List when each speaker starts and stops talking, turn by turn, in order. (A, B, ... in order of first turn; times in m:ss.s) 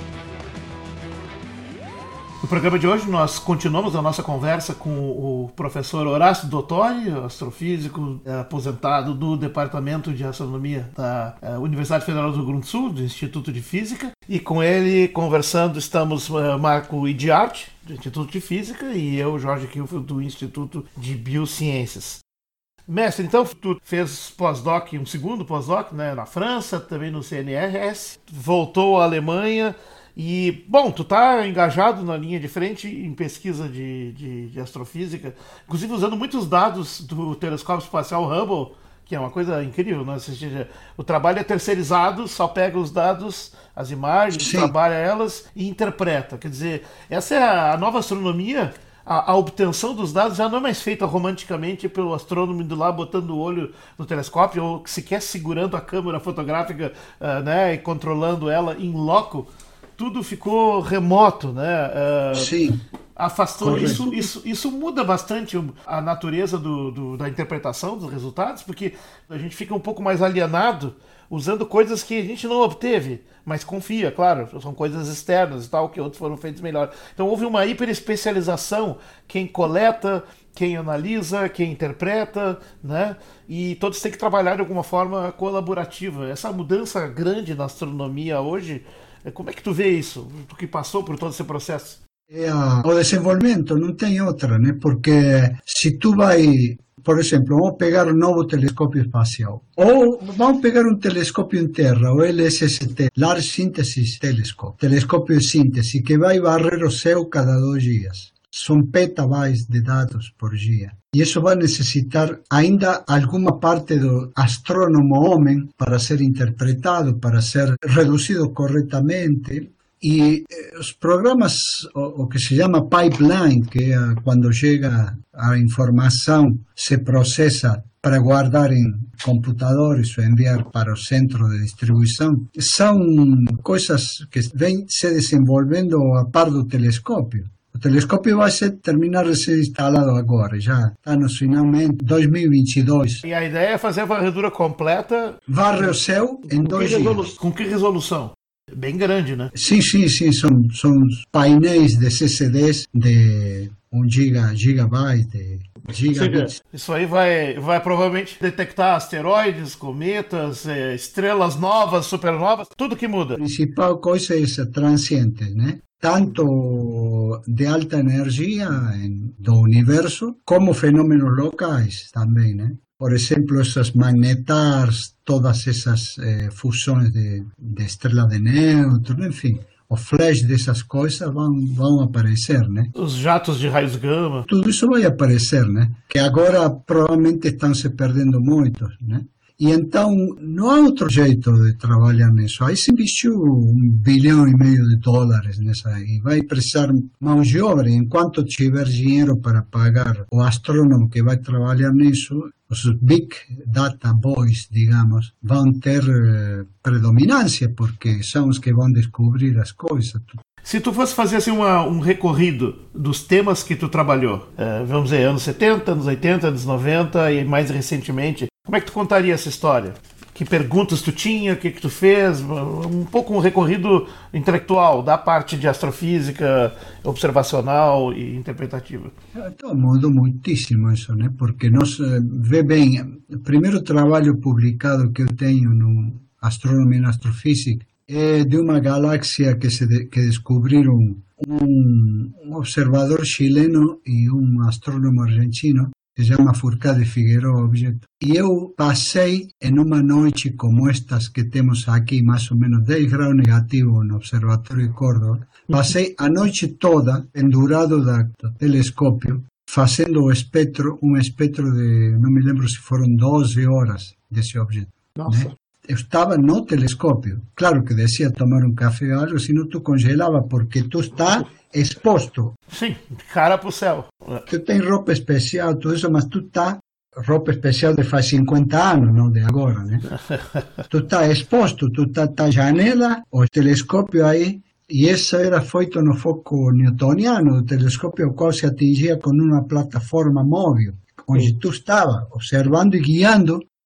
0:02.4-0:22.2 A
0:22.9-1:02.5 A
0:44.4-0:44.7 B
1:02.3-1:02.8 B
1:03.2-1:32.0 A
1:03.6-1:04.0 B
1:32.3-2:23.2 B
2:23.2-2:25.4 A
2:25.5-2:27.3 B
2:26.5-2:29.5 A
2:29.5-2:36.5 B
2:36.0-2:43.4 A
2:43.4-3:02.9 B
3:02.9-3:04.5 A
3:04.5-3:30.4 B
3:30.6-3:49.1 A
3:49.4-4:32.6 B
4:25.2-4:25.5 A
4:32.7-4:34.4 A
4:34.5-4:40.1 B
4:40.9-4:53.7 B